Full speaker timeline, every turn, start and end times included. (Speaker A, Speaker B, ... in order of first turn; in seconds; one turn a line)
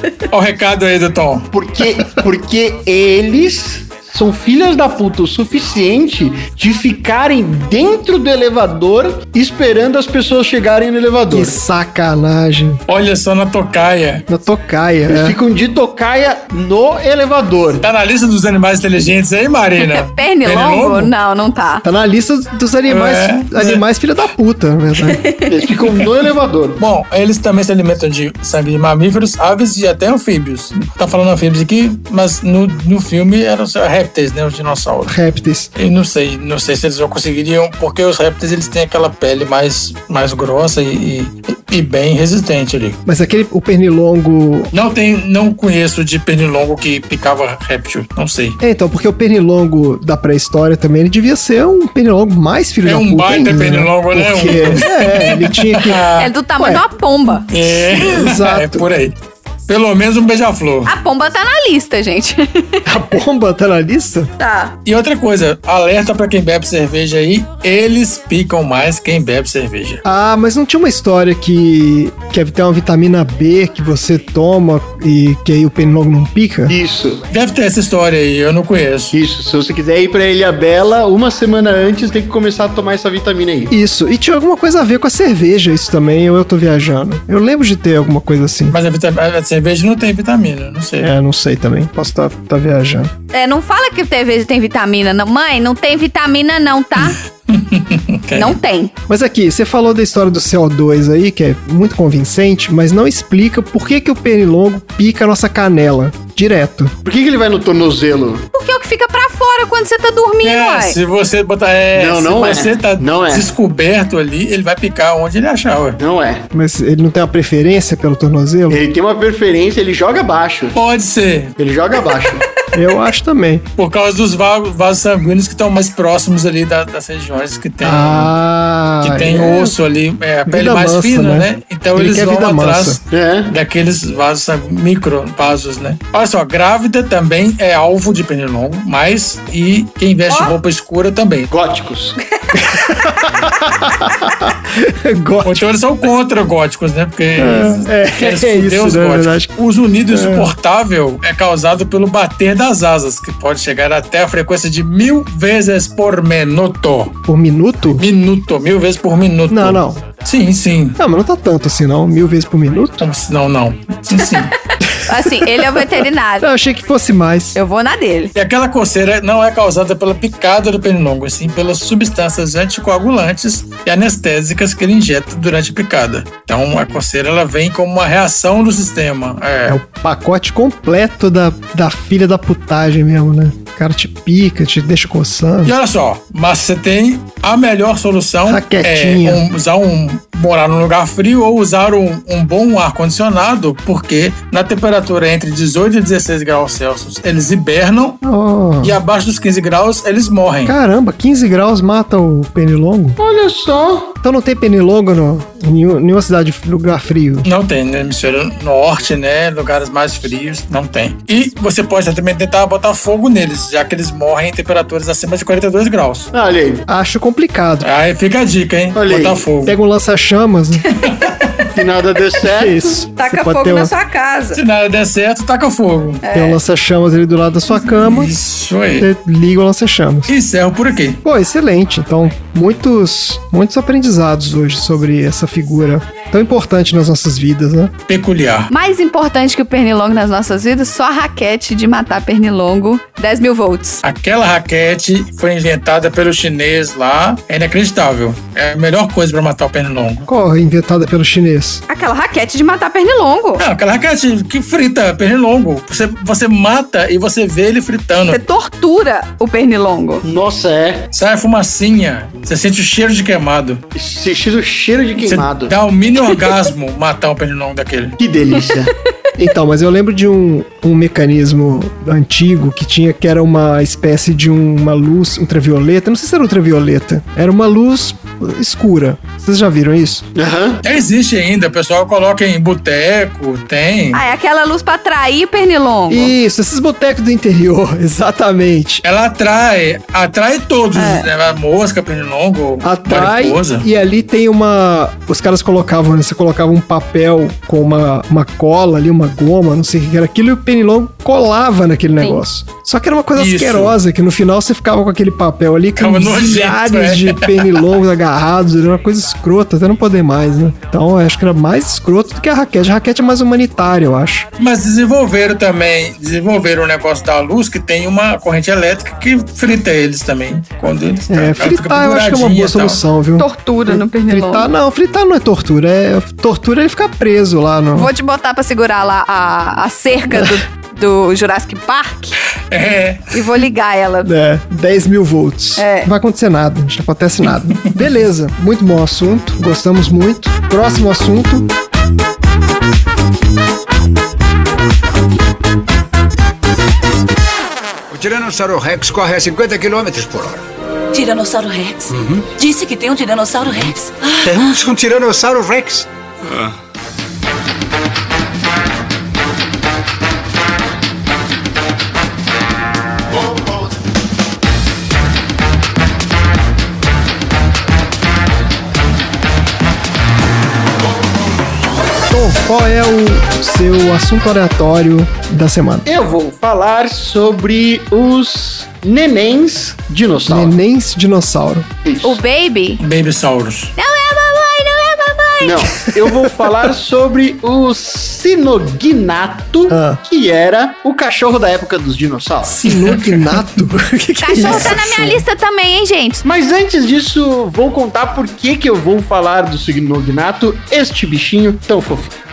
Speaker A: 0.3-1.5
Speaker B: 1.5-11.6
Speaker C: 11.3-12.8
Speaker A: 12.9-14.2
Speaker C: 14.3-15.4
Speaker B: 15.1-17.8
Speaker A: 17.8-21.1
Speaker D: 19.8-21.8
Speaker C: 21.8-25.2
Speaker A: 22.9-23.8
Speaker B: 25.4-26.8
Speaker A: 26.8-35.1
Speaker C: 35.0-35.7
Speaker A: 35.8-43.0
Speaker C: 43.0-44.7
Speaker A: 44.7-48.6
Speaker C: 48.6-56.1
Speaker A: 52.8-56.3
Speaker D: 56.1-57.5
Speaker C: 56.6-56.8
Speaker A: 57.5-59.1
Speaker C: 57.7-58.8
Speaker A: 59.7-60.9
Speaker D: 60.9-62.9
Speaker C: 62.9-64.3
Speaker D: 64.4-64.7
Speaker A: 64.8-70.0
Speaker C: 70.0-76.8
Speaker B: 76.7-77.2
Speaker A: 77.3-79.1
Speaker B: 79.1-83.7
Speaker C: 83.7-88.8
Speaker A: 88.7-91.1
Speaker C: 91.0-93.1
Speaker D: 93.3-97.2
Speaker A: 97.0-98.6
Speaker D: 98.3-98.9
Speaker C: 99.1-106.9
Speaker B: 107.0-108.5
Speaker D: 108.5-111.0
Speaker A: 110.4-116.0
Speaker B: 111.9-113.5
Speaker B: 116.0-116.5
Speaker C: 116.5-118.8
Speaker B: 118.7-120.8
Speaker A: 120.7-121.6
Speaker B: 121.6-122.4
Speaker C: 122.7-123.6
Speaker A: 123.8-128.3
Speaker C: 127.8-129.8
Speaker A: 129.0-141.5
Speaker C: 130.5-133.0
Speaker B: 133.1-133.5
Speaker B: 141.5-142.2
Speaker C: 142.5-145.7
Speaker A: 145.4-157.2
Speaker C: 147.4-149.5
Speaker C: 150.1-150.5
Speaker C: 157.2-158.0
Speaker A: 158.0-161.0
Speaker C: 159.5-160.0
Speaker C: 161.0-163.0
Speaker A: 163.0-164.5
Speaker D: 165.0-166.5
Speaker C: 165.1-165.9
Speaker C: 166.4-167.6
Speaker D: 167.5-168.3
Speaker A: 168.3-179.8
Speaker C: 179.7-185.7
Speaker A: 185.6-198.2
Speaker C: 188.4-189.4
Speaker C: 198.2-199.0
Speaker A: 198.8-200.8
Speaker C: 200.7-203.2
Speaker B: 203.2-204.1
Speaker C: 204.2-207.5
Speaker A: 207.4-216.3
Speaker B: 216.3-216.9
Speaker C: 216.9-217.9
Speaker A: 217.8-219.7
Speaker B: 218.9-219.5
Speaker C: 219.6-220.9
Speaker D: 220.9-221.3
Speaker A: 221.0-221.6
Speaker B: 221.7-222.9
Speaker C: 222.4-223.9
Speaker D: 223.1-224.6
Speaker A: 224.5-226.2
Speaker D: 226.2-226.6
Speaker C: 226.3-228.3
Speaker A: 227.8-229.1
Speaker C: 229.0-230.3
Speaker A: 230.3-231.2
Speaker C: 231.2-237.9
Speaker A: 238.1-238.7
Speaker D: 238.7-244.0
Speaker A: 244.0-250.3
Speaker C: 250.3-251.8
Speaker D: 251.9-253.6
Speaker A: 253.6-258.4
Speaker D: 258.3-260.2
Speaker B: 260.2-261.1
Speaker A: 261.1-263.8
Speaker B: 263.9-265.7
Speaker A: 265.2-268.2
Speaker B: 268.2-268.9
Speaker C: 269.4-280.2
Speaker B: 280.4-280.8
Speaker A: 280.8-284.2
Speaker D: 284.1-286.3
Speaker C: 286.1-289.0
Speaker A: 289.0-293.8
Speaker D: 290.9-291.3
Speaker C: 292.8-314.5
Speaker A: 303.3-303.9
Speaker A: 306.0-307.9
Speaker A: 314.6-323.0
Speaker C: 321.3-328.1
Speaker D: 323.4-324.7
Speaker D: 327.9-332.4
Speaker A: 332.7-333.3
Speaker D: 333.3-334.3
Speaker C: 334.2-341.7
Speaker D: 335.8-336.1
Speaker E: 348.1-350.6
Speaker F: 351.1-354.6
Speaker E: 352.1-352.5
Speaker E: 354.4-356.7
Speaker C: 372.3-376.1
Speaker B: 376.0-380.8
Speaker C: 380.5-381.9
Speaker B: 382.0-382.4
Speaker D: 382.2-383.0
Speaker A: 383.0-383.9
Speaker D: 384.0-385.9
Speaker B: 385.6-392.8
Speaker C: 389.9-390.2
Speaker C: 392.6-395.4
Speaker A: 392.9-393.5
Speaker D: 394.4-396.4
Speaker B: 396.4-402.3